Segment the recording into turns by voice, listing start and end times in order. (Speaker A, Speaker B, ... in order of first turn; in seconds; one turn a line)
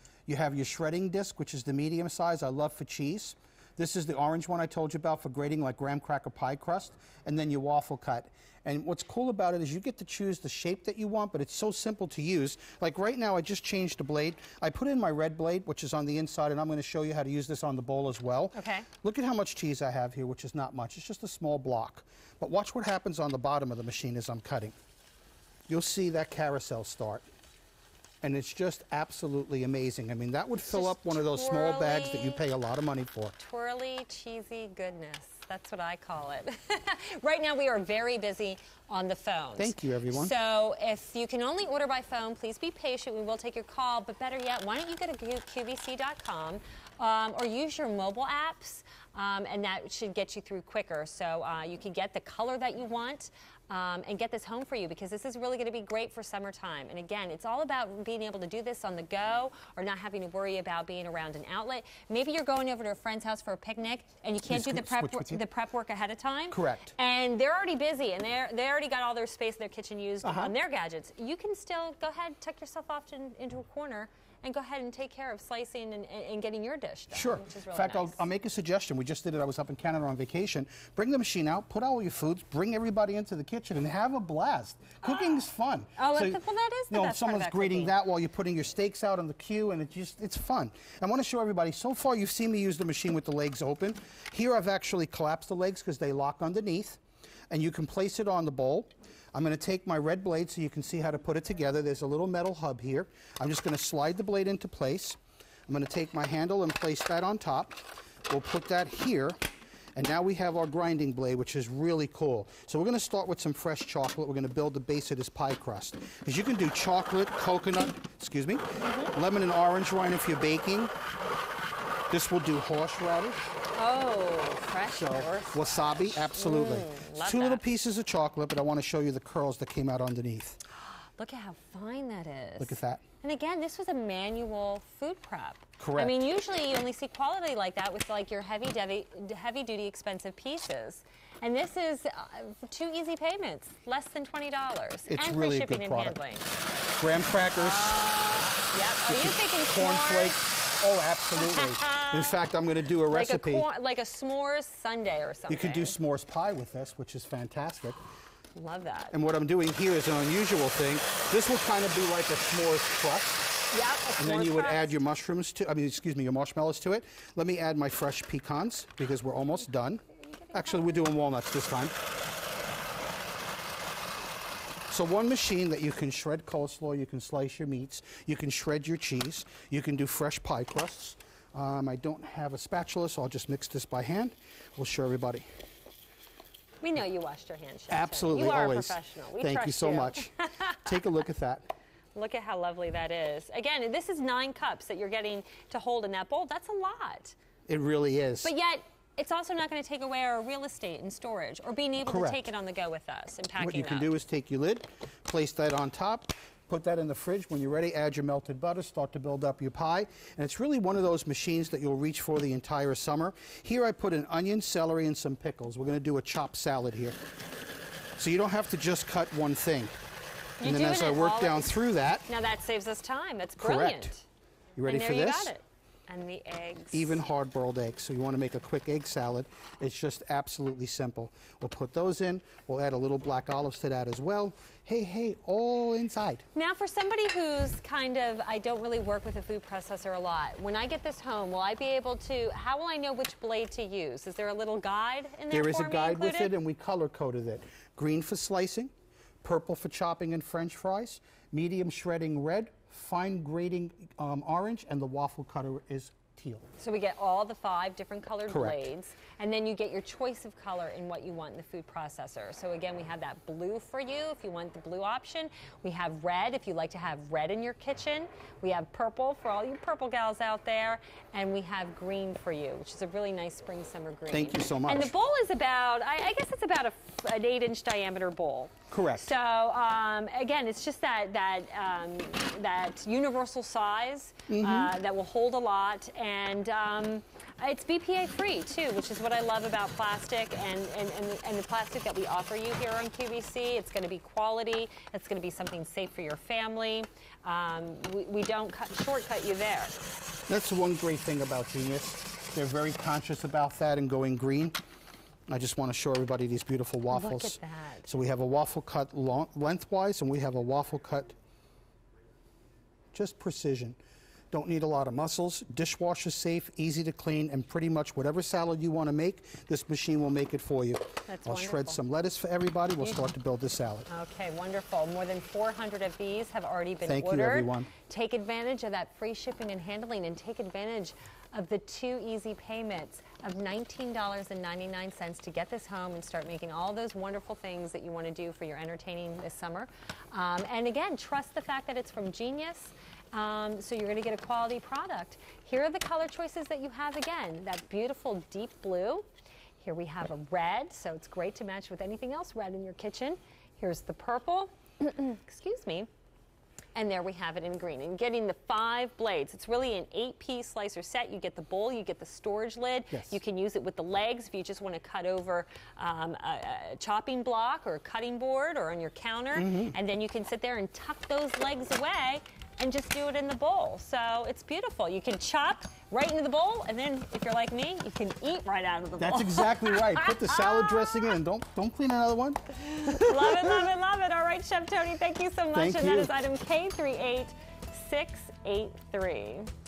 Speaker A: 0.3-24.8
Speaker B: 18.6-18.9
Speaker A: 25.7-27.3
Speaker A: 28.2-33.4
Speaker B: 30.6-32.4
Speaker B: 33.4-78.2
Speaker A: 39.6-40.3
Speaker A: 64.5-65.4
Speaker A: 66.5-66.9
Speaker A: 70.2-70.5
Speaker A: 77.1-109.4
Speaker B: 85.0-85.5
Speaker B: 86.0-88.0
Speaker A: 110.0-120.9
Speaker B: 118.8-119.2
Speaker A: 122.1-123.4
Speaker B: 123.7-127.6
Speaker A: 124.9-130.6
Speaker B: 131.2-146.5
Speaker A: 132.6-133.0
Speaker A: 135.8-136.1
Speaker A: 145.1-146.2
Speaker A: 147.0-148.0
Speaker B: 147.6-150.4
Speaker A: 149.1-153.7
Speaker B: 151.4-152.4
Speaker B: 153.1-155.9
Speaker A: 155.5-158.0
Speaker B: 158.6-159.2
Speaker A: 159.1-163.5
Speaker B: 163.7-164.9
Speaker A: 164.2-171.9
Speaker B: 170.2-171.1
Speaker A: 174.9-185.4
Speaker B: 186.8-191.0
Speaker A: 187.9-191.7
Speaker B: 192.2-197.4
Speaker A: 197.7-198.5
Speaker B: 198.4-204.1
Speaker A: 202.1-202.4
Speaker A: 203.6-217.2
Speaker A: 218.2-219.9
Speaker B: 220.6-224.2
Speaker A: 220.6-222.3
Speaker A: 223.6-224.1
Speaker A: 224.8-225.5
Speaker B: 224.8-227.2
Speaker A: 226.9-236.4
Speaker B: 236.6-246.5
Speaker A: 245.5-248.9
Speaker A: 249.4-256.6
Speaker B: 256.8-300.0
Speaker A: 258.5-258.9
Speaker A: 274.3-275.1
Speaker A: 278.9-279.3
Speaker A: 284.5-284.9
Speaker A: 300.5-304.8
Speaker A: 305.5-311.4
Speaker B: 307.1-308.1
Speaker A: 313.1-314.0
Speaker A: 314.5-324.1
Speaker B: 321.3-322.0
Speaker B: 323.0-323.3
Speaker B: 324.1-349.3
Speaker A: 327.1-327.9
Speaker B: 349.8-356.1
Speaker B: 356.9-381.4
Speaker A: 363.1-363.4
Speaker A: 369.6-369.9
Speaker A: 379.2-383.8
Speaker B: 383.1-389.7
Speaker A: 385.7-386.4